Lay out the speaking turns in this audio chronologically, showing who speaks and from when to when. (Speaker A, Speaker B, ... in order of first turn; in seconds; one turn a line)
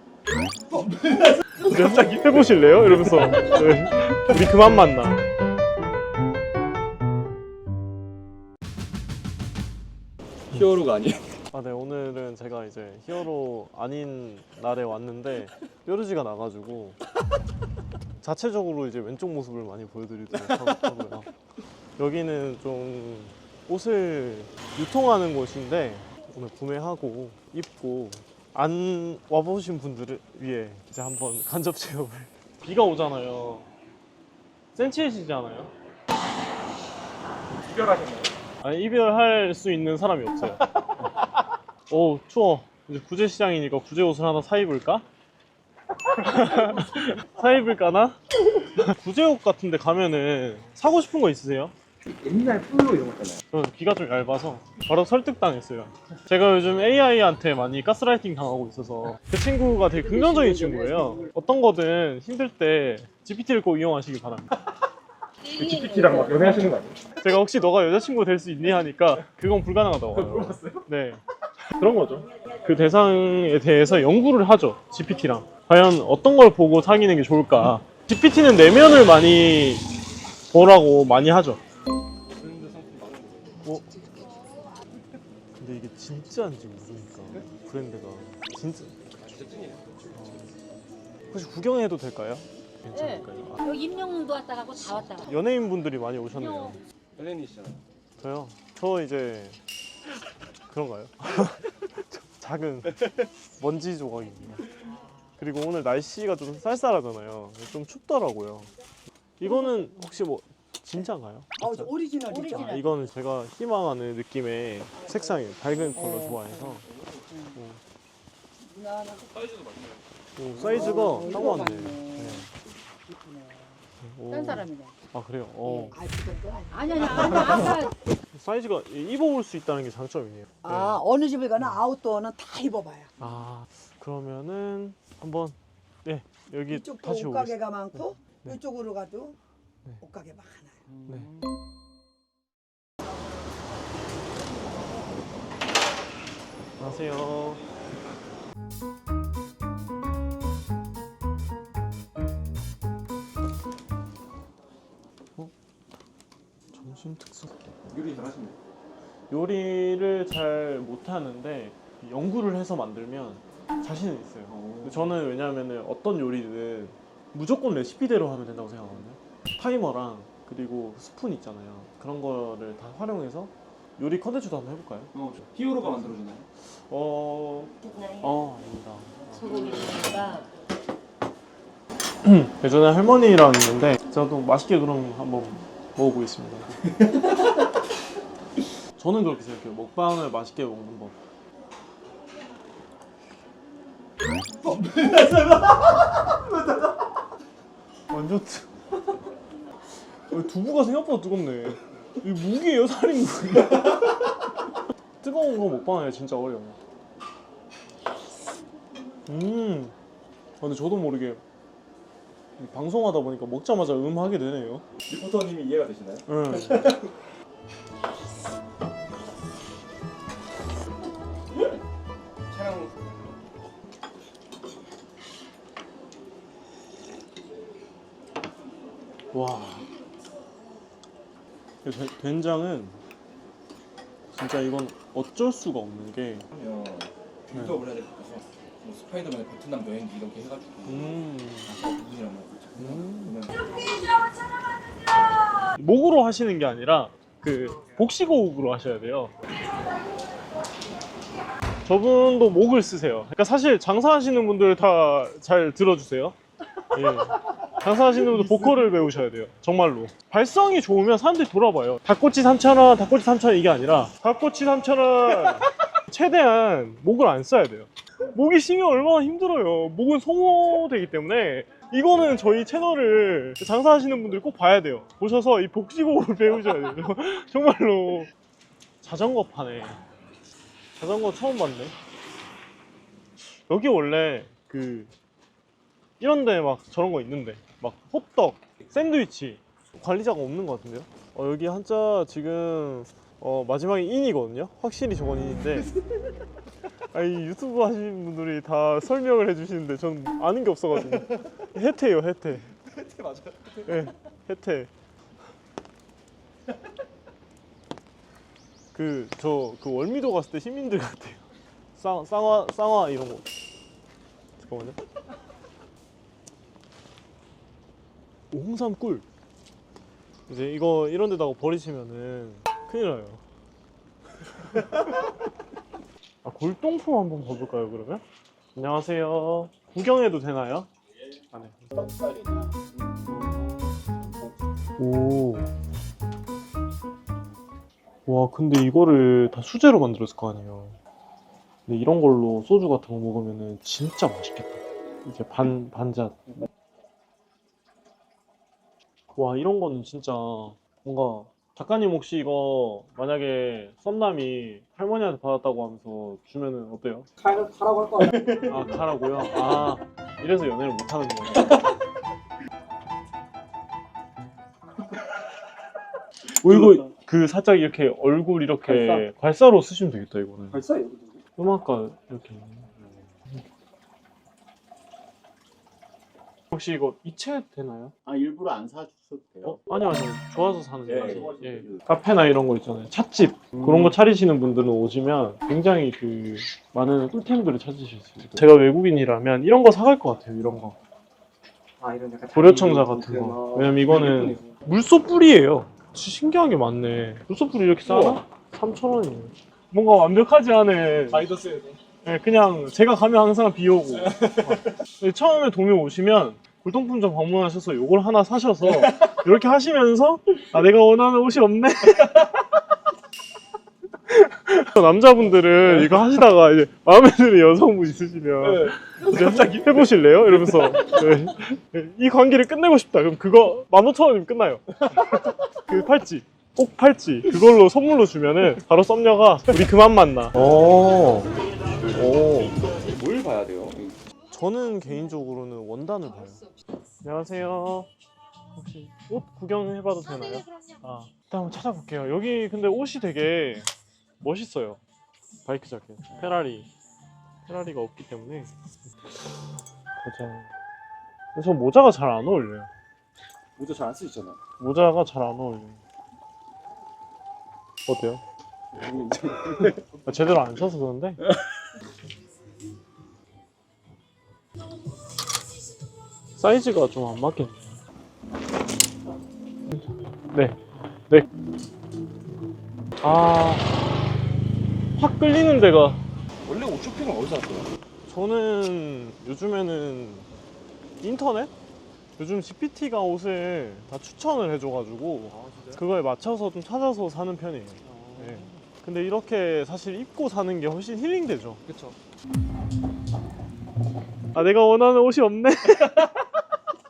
Speaker A: 0.8-1.3
Speaker B: 1.6-5.2
Speaker A: 10.5-11.3
Speaker B: 11.5-17.0
Speaker B: 18.2-21.3
Speaker B: 22.0-33.7
Speaker B: 34.7-35.7
Speaker A: 37.6-38.3
Speaker B: 38.6-40.7
Speaker B: 41.9-45.0
Speaker B: 46.1-51.7
Speaker A: 52.1-53.4
Speaker B: 53.5-64.5
Speaker C: 65.6-66.3
Speaker A: 65.6-67.0
Speaker B: 67.2-71.2
Speaker A: 70.2-70.8
Speaker B: 71.8-79.9
Speaker B: 80.5-81.6
Speaker A: 82.3-83.6
Speaker B: 83.6-84.1
Speaker B: 85.5-89.0
Speaker A: 89.2-90.0
Speaker B: 90.1-90.5
Speaker B: 91.3-93.7
Speaker C: 93.6-95.3
Speaker B: 95.2-96.8
Speaker A: 97.2-97.8
Speaker B: 98.2-99.6
Speaker B: 100.7-104.7
Speaker B: 105.4-108.7
Speaker B: 109.4-111.9
Speaker D: 111.6-112.8
Speaker C: 112.3-112.6
Speaker B: 112.5-116.8
Speaker D: 115.2-116.7
Speaker D: 117.3-117.6
Speaker B: 117.5-117.8
Speaker D: 118.6-119.4
Speaker A: 119.4-120.0
Speaker B: 120.3-122.5
Speaker D: 120.6-124.9
Speaker B: 124.0-126.0
Speaker D: 125.7-127.9
Speaker C: 126.8-127.9
Speaker B: 128.3-131.0
Speaker D: 130.6-133.1
Speaker B: 133.2-138.6
Speaker D: 136.7-139.3
Speaker D: 140.0-140.8
Speaker A: 140.9-141.4
Speaker B: 146.8-147.6
Speaker B: 156.7-157.6
Speaker A: 157.9-158.6
Speaker B: 159.3-175.1
Speaker A: 164.5-165.1
Speaker A: 175.1-176.5
Speaker B: 176.7-179.9
Speaker C: 177.8-178.2
Speaker C: 179.4-180.5
Speaker B: 182.2-186.8
Speaker B: 188.9-191.2
Speaker B: 198.1-198.7
Speaker B: 200.3-204.2
Speaker B: 205.2-206.8
Speaker B: 209.3-209.9
Speaker B: 210.6-211.4
Speaker B: 212.6-214.8
Speaker A: 215.1-216.3
Speaker B: 216.3-216.9
Speaker A: 222.5-223.3
Speaker B: 229.3-229.9
Speaker B: 231.8-233.0
Speaker B: 234.3-236.5
Speaker A: 236.5-243.6
Speaker B: 237.5-237.8
Speaker B: 240.8-241.7
Speaker B: 242.8-243.3
Speaker B: 245.8-249.3
Speaker B: 251.8-256.4
Speaker B: 256.9-278.3
Speaker B: 279.0-280.0
Speaker B: 280.9-281.9
Speaker B: 283.7-285.1
Speaker B: 286.2-295.9
Speaker B: 297.1-302.7
Speaker A: 302.9-303.7
Speaker B: 303.8-304.9
Speaker B: 308.9-313.5
Speaker B: 314.6-315.0
Speaker B: 318.5-319.2
Speaker B: 320.5-323.4
Speaker B: 324.6-325.0
Speaker B: 326.4-328.2
Speaker B: 328.7-330.9
Speaker B: 331.5-331.9
Speaker B: 335.0-335.7
Speaker B: 338.2-341.0
Speaker B: 341.9-346.6
Speaker B: 349.3-357.3
Speaker B: 358.6-361.9
Speaker B: 366.6-370.8
Speaker A: 370.8-371.3
Speaker B: 371.6-372.9
Speaker B: 376.7-378.1
Speaker E: 378.2-379.8
Speaker B: 379.6-391.0
Speaker E: 381.1-382.0
Speaker A: 392.0-394.6
Speaker B: 392.5-401.5
Speaker A: 401.3-401.9
Speaker B: 402.2-412.7
Speaker B: 414.3-431.5
Speaker B: 432.1-432.7
Speaker A: 432.9-434.2
Speaker B: 434.5-436.7
Speaker B: 437.2-438.1
Speaker B: 438.8-443.9
Speaker B: 444.4-445.0
Speaker B: 445.6-446.9
Speaker B: 447.7-448.7
Speaker B: 450.2-450.7
Speaker B: 451.5-452.9
Speaker A: 453.8-454.6
Speaker B: 454.8-456.0
Speaker B: 458.1-458.4
Speaker A: 459.0-460.0
Speaker B: 460.2-461.4
Speaker B: 466.6-468.0
Speaker B: 469.9-470.8
Speaker B: 473.2-473.9
Speaker B: 475.2-476.2
Speaker A: 476.6-477.9
Speaker B: 478.3-480.4
Speaker B: 481.2-481.7
Speaker B: 482.4-491.8
Speaker A: 485.5-486.0
Speaker A: 488.1-488.8
Speaker A: 491.9-492.2
Speaker B: 494.5-496.4